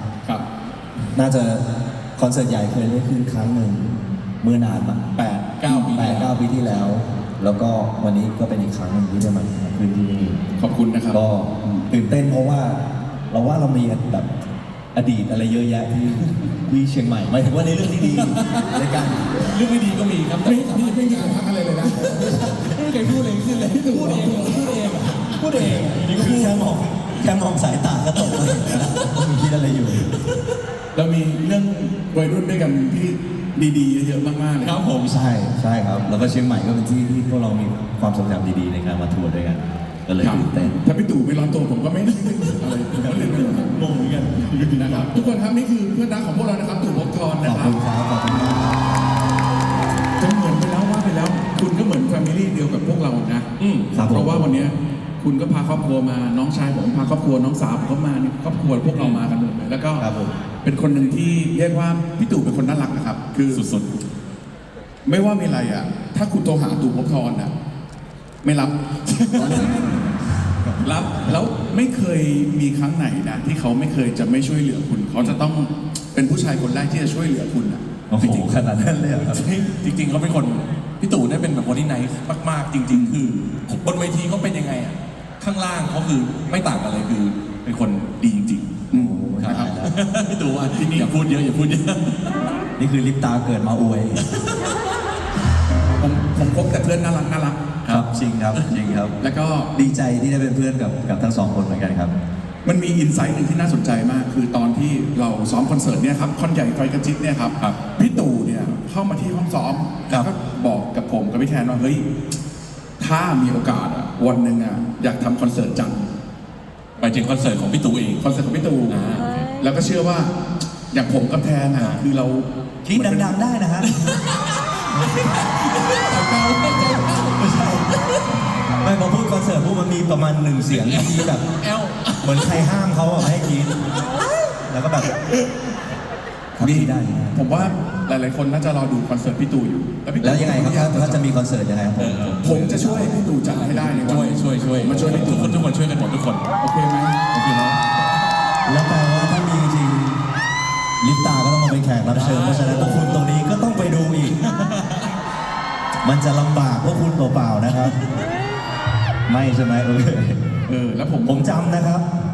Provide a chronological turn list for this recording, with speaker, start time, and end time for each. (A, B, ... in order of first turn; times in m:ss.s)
0:01.1-0:01.6 A
0:02.2-0:05.0 A
0:05.2-0:06.4 B
0:05.7-0:10.4 A
0:10.6-0:11.9 C
0:11.1-0:14.3 A
0:14.9-0:19.3 A
0:18.0-0:26.8 B
0:20.4-0:22.4 C
0:23.7-0:25.4 C
0:25.1-0:30.1 A
0:28.3-0:28.9 B
0:30.9-0:34.8 C
0:34.6-0:35.1 B
0:35.0-0:40.8 A
0:40.2-0:43.8 C
0:42.3-0:45.4 A
0:44.6-0:47.8 C
0:47.4-0:48.8 A
0:50.2-1:00.1 C
0:53.6-0:54.0 B
0:53.9-0:54.7 A
0:58.9-0:59.2 B
1:00.0-1:00.3 A
1:00.6-1:03.7 C
1:03.5-1:03.9 B
1:05.0-1:07.5 C
1:08.4-1:08.8 C
1:09.1-1:09.9 B
1:09.3-1:10.1 C
1:10.8-1:17.8 C
1:15.2-1:15.4 B
1:18.1-1:19.5 A
1:18.2-1:18.5 B
1:19.2-1:28.9 B
1:22.9-1:23.2 C
1:28.9-1:30.0 A
1:28.9-1:29.7 C
1:29.4-1:32.4 B
1:30.7-1:31.1 C
1:32.8-1:34.2 A
1:34.3-1:34.8 B
1:36.0-1:37.7 C
1:37.8-1:39.0 B
1:37.9-1:39.1 A
1:39.2-1:39.7 C
1:39.7-1:42.1 A
1:42.6-1:52.1 C
1:53.0-1:56.0 C
1:57.0-1:58.3 B
1:58.2-1:59.0 C
1:58.9-1:59.5 B
1:59.6-2:00.4 C
2:00.9-2:03.4 C
2:01.8-2:02.0 B
2:02.8-2:04.0 A
2:03.9-2:08.2 B
2:04.9-2:05.4 A
2:07.4-2:07.9 A
2:08.8-2:11.4 A
2:10.7-2:12.6 B
2:12.2-2:13.8 A
2:14.7-2:15.2 A
2:16.6-2:17.8 A
2:16.6-2:21.3 C
2:20.2-2:23.3 A
2:22.0-2:22.6 B
2:22.4-2:25.5 C
2:23.3-2:26.4 B
2:24.7-2:25.6 A
2:26.6-2:27.2 C
2:27.3-2:28.0 B
2:28.7-2:30.2 A
2:31.0-2:34.4 A
2:32.1-2:33.2 B
2:34.4-2:35.1 B
2:36.0-2:38.0 A
2:37.7-2:38.2 B
2:39.3-2:40.4 A
2:40.7-2:41.7 C
2:41.2-2:42.1 A